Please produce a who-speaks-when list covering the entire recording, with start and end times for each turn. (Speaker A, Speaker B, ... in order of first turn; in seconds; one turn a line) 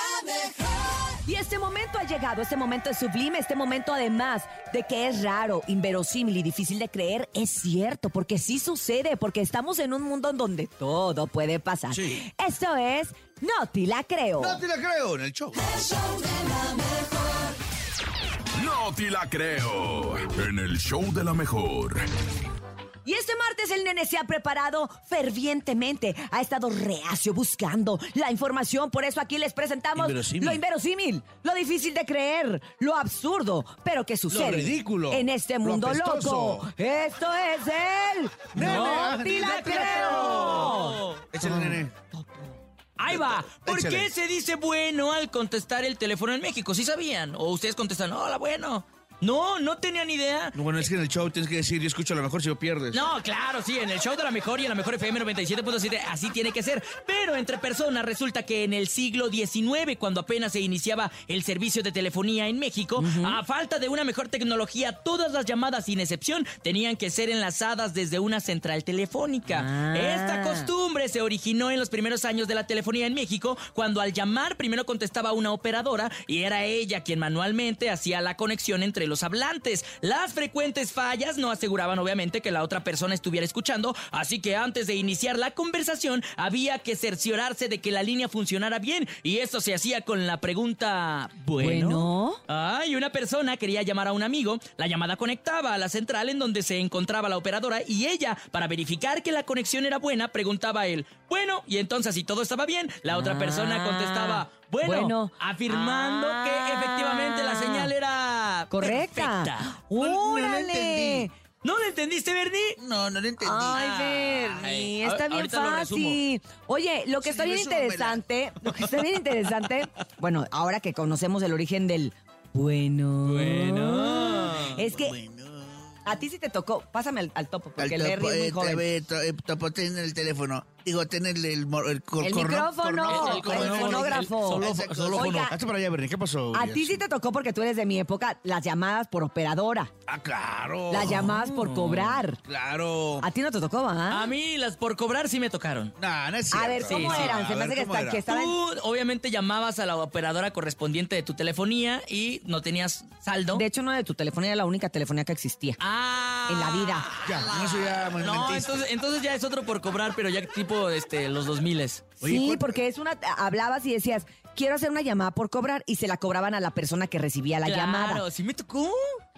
Speaker A: 1.2-14.6
Speaker B: 11.9-12.2
Speaker B: 14.4-15.8
Speaker A: 16.3-17.3
Speaker C: 18.6-22.1
Speaker A: 23.1-42.5
Speaker B: 30.0-30.6
Speaker B: 34.3-36.7
Speaker B: 38.5-42.0
Speaker D: 38.5-41.3
Speaker D: 43.0-50.9
Speaker B: 43.0-44.1
Speaker B: 50.5-53.0
Speaker D: 52.9-109.8
Speaker A: 63.0-63.4
Speaker A: 69.5-70.7
Speaker A: 91.6-92.4
Speaker A: 103.1-107.9
Speaker A: 108.7-111.3
Speaker B: 110.0-111.3
Speaker D: 111.6-112.8
Speaker B: 112.8-113.8
Speaker A: 113.4-125.2
Speaker D: 113.6-116.2
Speaker B: 117.2-118.2
Speaker D: 123.2-124.8
Speaker B: 124.7-126.2
Speaker A: 126.0-128.9
Speaker B: 127.8-137.0
Speaker A: 132.2-135.6
Speaker D: 133.1-135.5
Speaker A: 136.5-139.9
Speaker B: 140.1-141.3
Speaker A: 140.9-142.4
Speaker D: 141.1-142.2
Speaker B: 142.4-143.3
Speaker A: 143.2-144.3
Speaker D: 144.1-145.9
Speaker B: 146.0-148.2
Speaker A: 146.5-148.6
Speaker D: 146.8-147.4
Speaker D: 148.2-153.6
Speaker A: 153.5-155.8
Speaker D: 155.8-162.1
Speaker A: 156.5-157.1
Speaker B: 157.2-158.8
Speaker B: 162.2-162.8
Speaker A: 162.2-168.2
Speaker D: 167.7-169.2